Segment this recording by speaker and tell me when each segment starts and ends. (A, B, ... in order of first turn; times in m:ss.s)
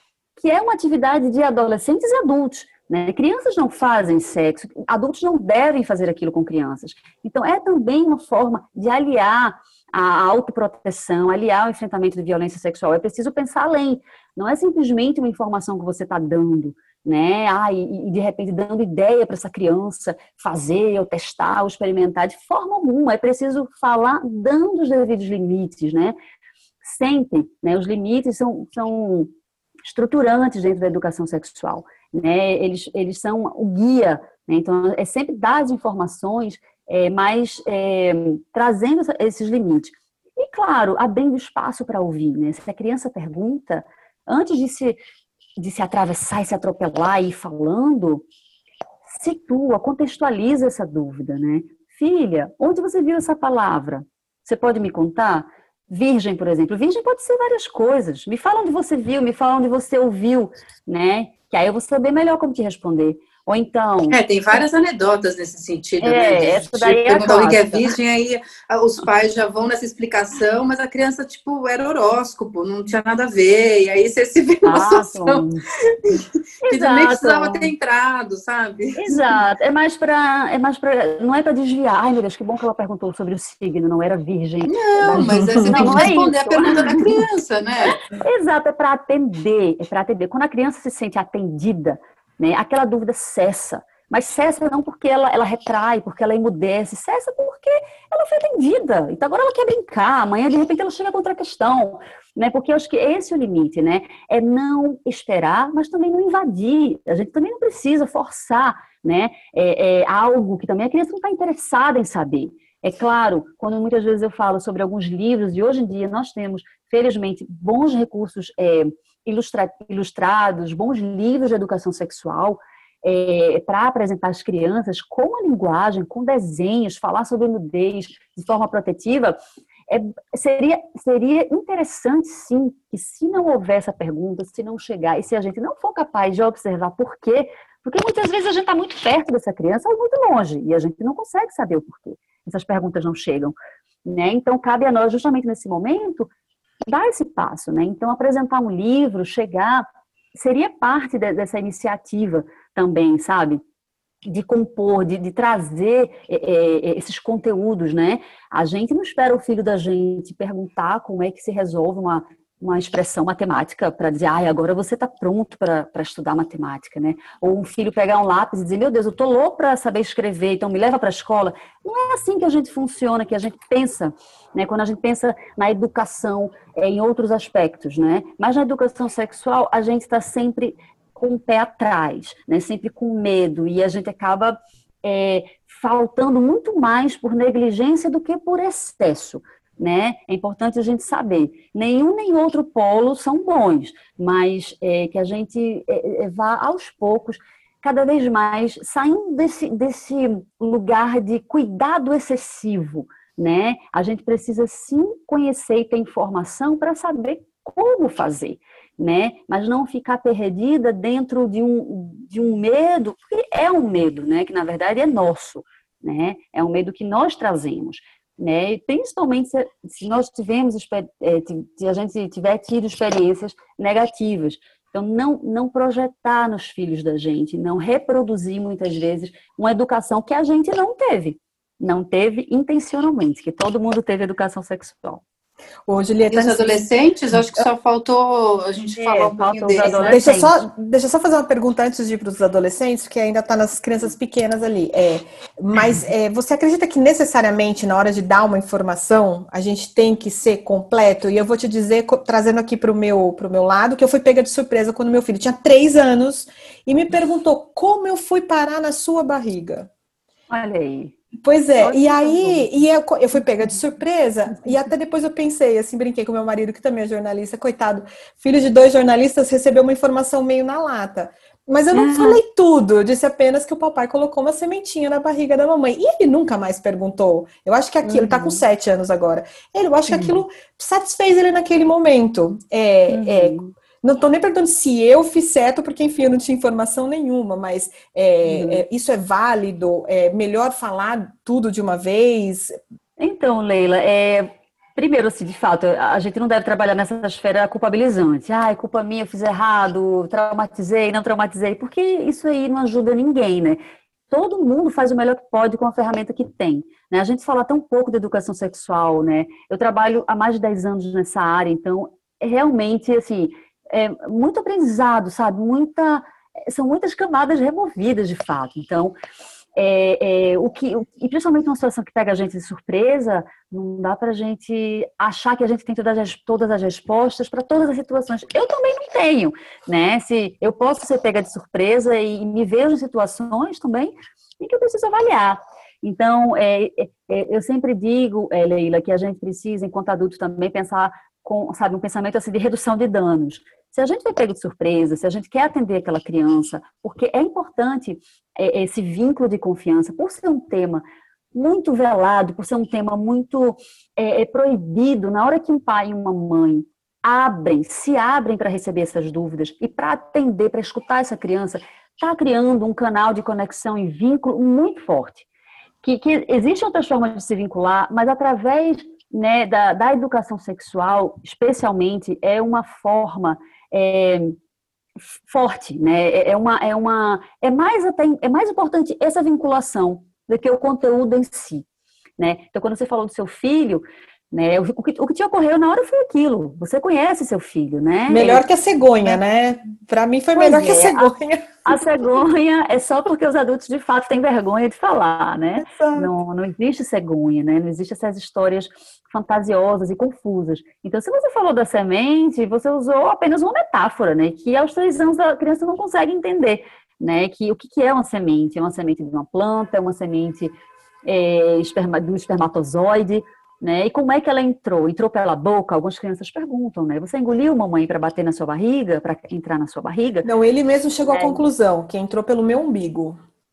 0:00.4-0:26.2 A
0:26.8-0:29.3 A
0:29.8-0:45.0 A
0:45.6-0:48.3 A
0:49.1-1:04.6 A
1:04.1-1:19.4 B
1:06.0-1:08.0 A
1:14.6-1:15.6 A
1:16.6-1:17.7 A
1:19.0-1:27.2 A
1:24.7-1:28.0 B
1:25.2-1:26.1 C
1:28.1-2:09.4 A
2:09.9-2:26.3 A
2:26.8-2:33.6 A
2:34.2-3:55.2 A
3:55.9-3:56.8 C
3:56.3-4:00.2 B
3:57.4-3:57.6 C
3:59.0-4:00.6 A
3:59.8-4:19.9 C
4:20.5-4:21.2 A
4:21.4-4:52.8 C
4:21.8-4:22.9 A
4:31.9-4:32.4 A
4:38.0-4:38.6 A
4:40.1-4:40.4 A
4:43.1-4:43.7 A
4:48.4-4:48.8 A
4:53.2-5:19.2 A
5:19.8-5:51.0 A
5:51.5-6:05.5 A
6:06.0-6:14.6 A
6:15.4-6:21.8 A
6:22.4-6:28.6 A
6:28.3-6:31.8 C
6:30.6-7:00.5 A
6:35.8-6:36.3 C
7:00.4-7:03.4 C
7:01.3-7:01.6 A